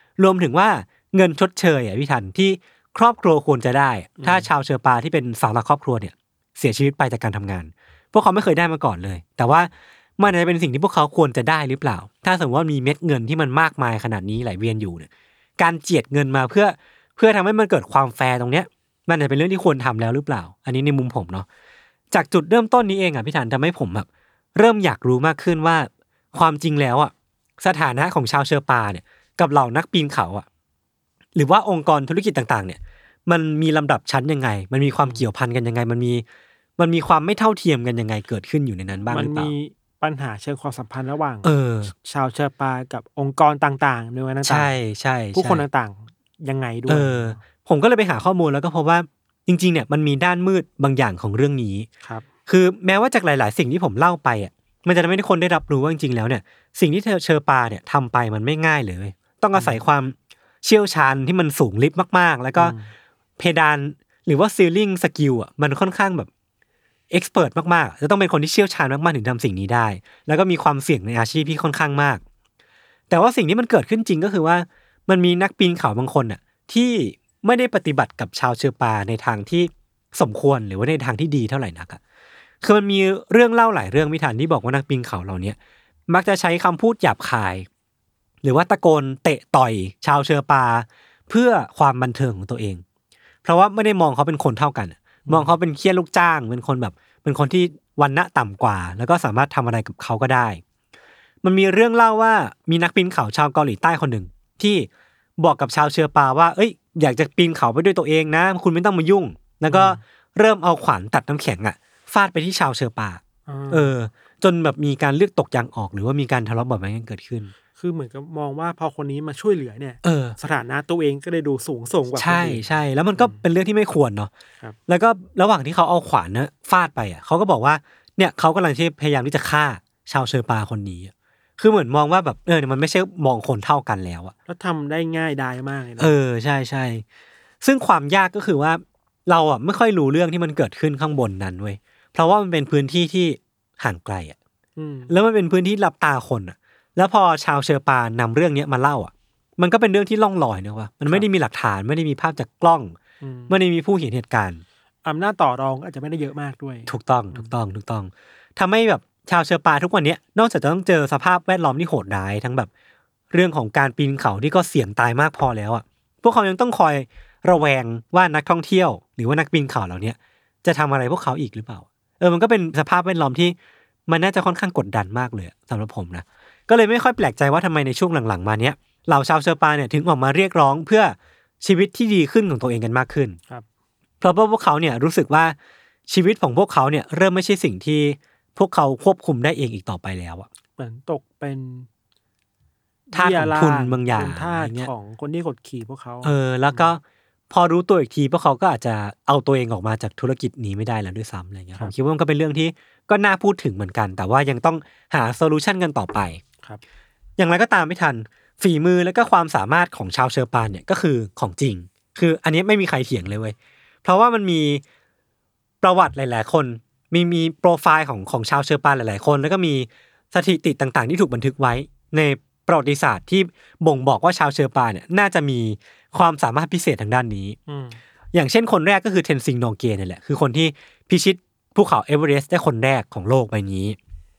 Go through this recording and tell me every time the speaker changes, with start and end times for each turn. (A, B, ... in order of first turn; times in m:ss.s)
0:00.2-0:21.5 A
0:04.2-0:04.5 B
0:22.1-0:30.4 A
0:31.4-0:36.2 A
0:36.8-0:39.5 A
0:39.1-0:44.7 B
0:41.4-0:41.9 A
0:44.4-0:45.6 A
0:45.3-0:47.4 B
0:46.9-0:51.9 A
0:52.5-1:02.8 A
0:59.6-0:59.8 B
1:02.6-1:02.9 B
1:03.4-1:06.3 A
1:07.1-1:12.2 A
1:13.1-1:22.0 A
1:22.6-1:25.6 A
1:26.1-1:27.7 A
1:28.4-1:32.8 A
1:33.4-1:40.6 A
1:35.3-1:35.6 B
1:41.4-1:57.5 A
1:49.7-1:50.0 B
1:53.5-1:53.9 B
1:57.8-2:02.7 B
2:00.0-2:00.4 A
2:02.2-2:04.3 A
2:04.9-2:14.3 A
2:14.5-2:16.1 B
2:16.0-2:17.0 A
2:17.6-2:24.4 A
2:24.8-2:25.1 B
2:25.1-2:33.0 A
2:33.2-2:33.6 B
2:33.5-2:34.6 A
2:35.0-2:37.5 B
2:36.9-2:42.7 A
2:43.3-2:53.6 A
2:54.1-3:03.4 A
3:04.2-3:05.6 A
3:06.1-3:10.5 A
3:10.8-3:11.9 B
3:13.1-3:16.9 B
3:13.1-3:14.9 A
3:16.2-3:26.4 A
3:27.4-3:34.8 A
3:35.8-3:47.6 A
3:47.7-3:48.0 B
3:48.3-3:54.0 A